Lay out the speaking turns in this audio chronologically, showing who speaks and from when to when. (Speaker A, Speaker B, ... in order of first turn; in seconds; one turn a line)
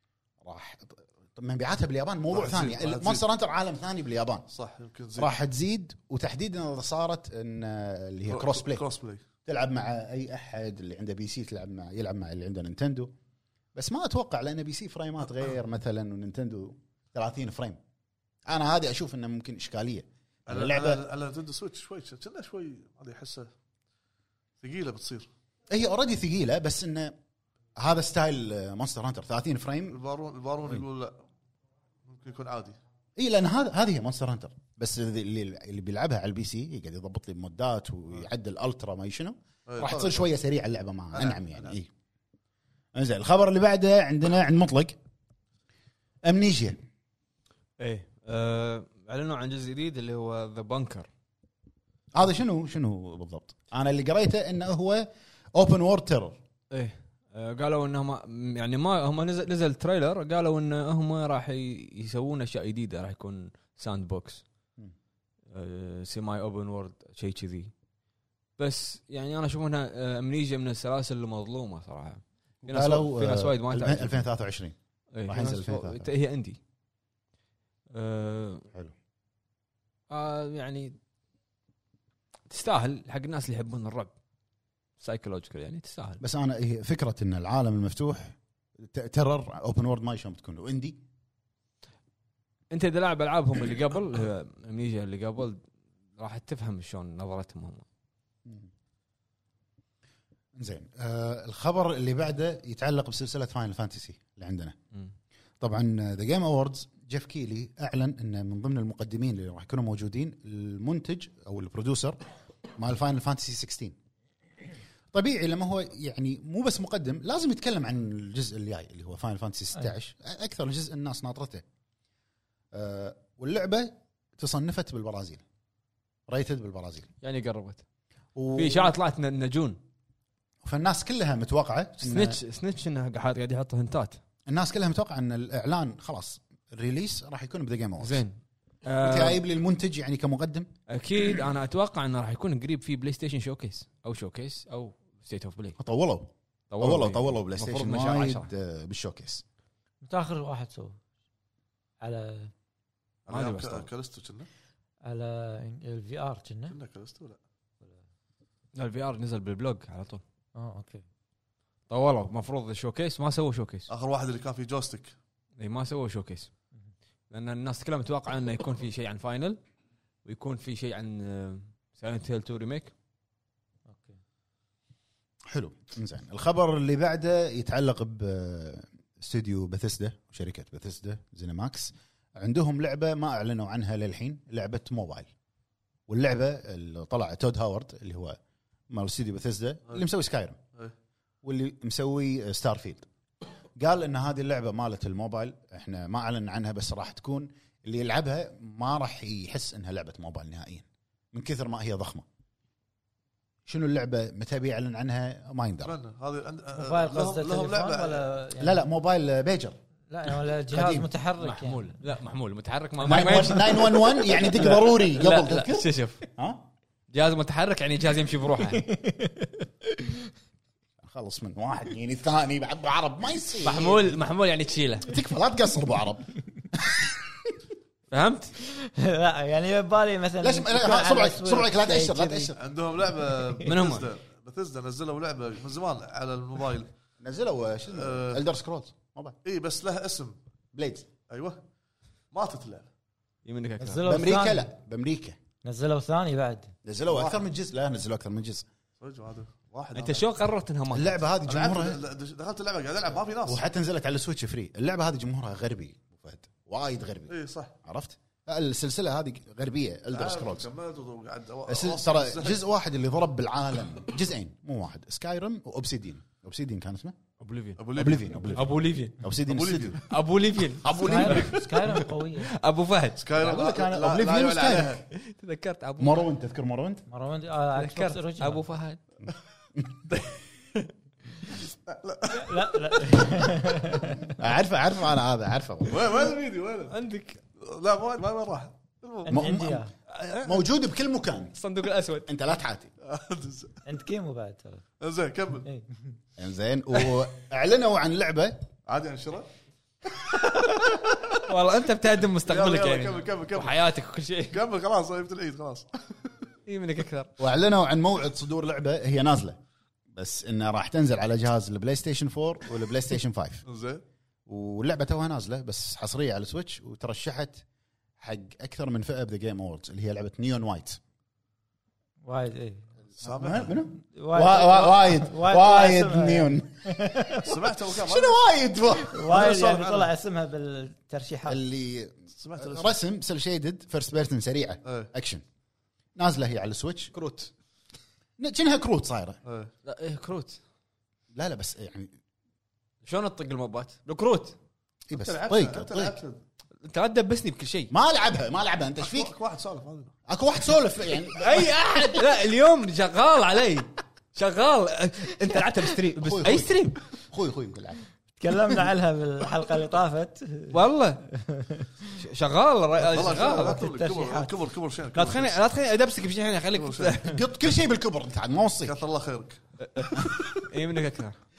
Speaker A: 0.4-4.5
Speaker B: 2.3-3.2
Speaker B: 4.5-5.3
Speaker A: 5.1-8.8
Speaker B: 8.3-9.2
Speaker A: 9.4-13.1
Speaker A: 13.7-17.8
Speaker A: 18.4-21.0
Speaker B: 20.5-23.5
Speaker B: 24.6-25.3
Speaker A: 25.7-27.2
Speaker A: 27.8-29.9
Speaker B: 29.9-31.2
Speaker B: 32.0-32.8
Speaker A: 33.2-41.9
Speaker B: 39.7-40.3
Speaker B: 41.1-41.8
Speaker A: 43.0-45.0
Speaker A: 46.2-46.8
Speaker C: 47.8-51.1
Speaker A: 52.1-56.4
Speaker C: 56.7-64.4
Speaker C: 65.5-67.7
Speaker C: 68.6-74.3
Speaker A: 72.6-74.7
Speaker C: 75.1-76.6
Speaker A: 75.3-76.1
Speaker C: 77.9-78.7
Speaker C: 80.1-81.0
Speaker C: 82.5-84.1
Speaker C: 85.0-86.2
Speaker A: 86.2-91.0
Speaker C: 92.7-95.6
Speaker C: 96.2-97.8
Speaker A: 100.5-104.7
Speaker A: 105.6-112.2
Speaker A: 112.8-114.0
Speaker A: 115.1-121.6
Speaker A: 122.7-125.4
Speaker A: 126.3-127.1
Speaker C: 127.2-127.8
Speaker A: 128.3-128.9
Speaker C: 128.5-129.8
Speaker A: 130.6-132.4
Speaker C: 132.0-134.2
Speaker A: 134.4-138.2
Speaker C: 138.0-139.4
Speaker A: 139.0-140.7
Speaker C: 140.9-145.8
Speaker A: 145.8-149.4
Speaker C: 146.7-148.5
Speaker D: 150.0-151.0
Speaker D: 152.0-152.5
Speaker B: 153.3-154.5
Speaker C: 153.3-153.9
Speaker D: 155.0-156.8
Speaker B: 156.7-157.4
Speaker C: 158.8-160.2
Speaker D: 160.6-161.0
Speaker C: 161.9-163.9
Speaker B: 163.9-165.2
Speaker C: 165.6-166.5
Speaker C: 167.3-169.6
Speaker C: 170.2-172.9
Speaker D: 173.9-174.2
Speaker A: 175.5-185.3
Speaker A: 186.1-188.4
Speaker A: 188.9-190.6
Speaker A: 191.4-193.1
Speaker A: 193.8-202.2
Speaker A: 203.7-205.9
Speaker B: 205.8-208.3
Speaker D: 206.7-208.8
Speaker A: 208.6-209.7
Speaker D: 210.1-211.9
Speaker A: 210.7-211.1
Speaker C: 211.4-216.2
Speaker A: 213.0-216.7
Speaker C: 217.1-218.8
Speaker D: 218.8-220.2
Speaker A: 221.0-224.1
Speaker C: 223.6-225.1
Speaker A: 225.1-227.5
Speaker C: 228.1-228.5
Speaker D: 228.6-232.5
Speaker A: 230.4-232.6
Speaker B: 232.6-236.9
Speaker C: 233.6-234.1
Speaker A: 237.2-239.4
Speaker B: 237.9-238.4
Speaker B: 239.4-240.4
Speaker A: 240.7-241.1
Speaker B: 241.3-241.6
Speaker B: 242.3-242.9
Speaker C: 243.4-244.1
Speaker D: 243.8-244.7
Speaker A: 244.0-245.4
Speaker D: 245.6-246.7
Speaker A: 246.8-248.6
Speaker B: 247.1-247.4
Speaker B: 249.0-250.2
Speaker C: 249.9-251.2
Speaker A: 250.9-252.0
Speaker B: 251.5-253.6
Speaker A: 253.5-260.7
Speaker B: 257.3-257.7
Speaker B: 260.1-262.6
Speaker A: 261.7-267.2
Speaker C: 267.4-267.8
Speaker B: 267.8-268.6
Speaker A: 267.9-270.0
Speaker C: 268.6-269.2
Speaker B: 269.5-270.0
Speaker C: 270.0-273.4
Speaker A: 270.8-271.7
Speaker D: 271.0-272.5
Speaker B: 273.2-275.0
Speaker A: 273.4-275.0
Speaker C: 275.1-276.3
Speaker A: 276.0-277.1
Speaker D: 277.1-278.6
Speaker C: 277.7-279.0
Speaker A: 279.2-279.9
Speaker C: 280.2-280.9
Speaker B: 281.9-283.4
Speaker D: 282.3-284.4
Speaker A: 284.4-286.1
Speaker B: 285.8-286.9
Speaker C: 286.9-287.4
Speaker B: 287.6-289.3
Speaker D: 289.2-289.9
Speaker A: 289.3-289.8
Speaker C: 290.1-290.6
Speaker A: 290.4-291.6
Speaker C: 291.6-292.3
Speaker A: 292.3-292.9
Speaker B: 293.0-293.8
Speaker D: 293.9-294.8
Speaker B: 295.0-295.7
Speaker A: 296.4-298.6
Speaker B: 298.9-299.5
Speaker B: 300.4-301.4
Speaker C: 300.6-300.9
Speaker C: 301.4-304.6
Speaker B: 302.4-303.9
Speaker B: 304.5-306.0
Speaker C: 306.7-307.3
Speaker A: 307.4-309.6
Speaker A: 310.1-313.6
Speaker B: 313.7-314.0
Speaker A: 314.5-317.6
Speaker A: 318.2-321.0
Speaker D: 322.2-322.9
Speaker B: 323.2-323.8
Speaker A: 323.2-327.4
Speaker D: 324.1-327.5
Speaker B: 327.4-328.4
Speaker A: 327.9-329.4
Speaker D: 329.1-331.6
Speaker B: 329.2-330.1
Speaker A: 331.5-335.4
Speaker B: 332.4-332.9
Speaker A: 336.2-337.5
Speaker A: 338.4-339.4
Speaker B: 339.4-339.7
Speaker C: 339.8-340.6
Speaker A: 341.3-342.1
Speaker C: 343.0-344.6
Speaker A: 345.1-346.2
Speaker B: 345.1-346.4
Speaker C: 346.8-347.9
Speaker A: 347.9-349.3
Speaker B: 349.0-350.1
Speaker A: 350.3-352.3
Speaker C: 351.3-357.0
Speaker A: 356.2-358.1
Speaker D: 358.4-360.8
Speaker C: 360.7-361.2
Speaker D: 361.3-361.9
Speaker C: 362.2-363.9
Speaker B: 363.1-365.6
Speaker D: 363.2-364.5
Speaker C: 365.1-367.4
Speaker B: 366.7-367.2
Speaker A: 367.2-368.9
Speaker B: 368.8-369.6
Speaker C: 369.8-371.4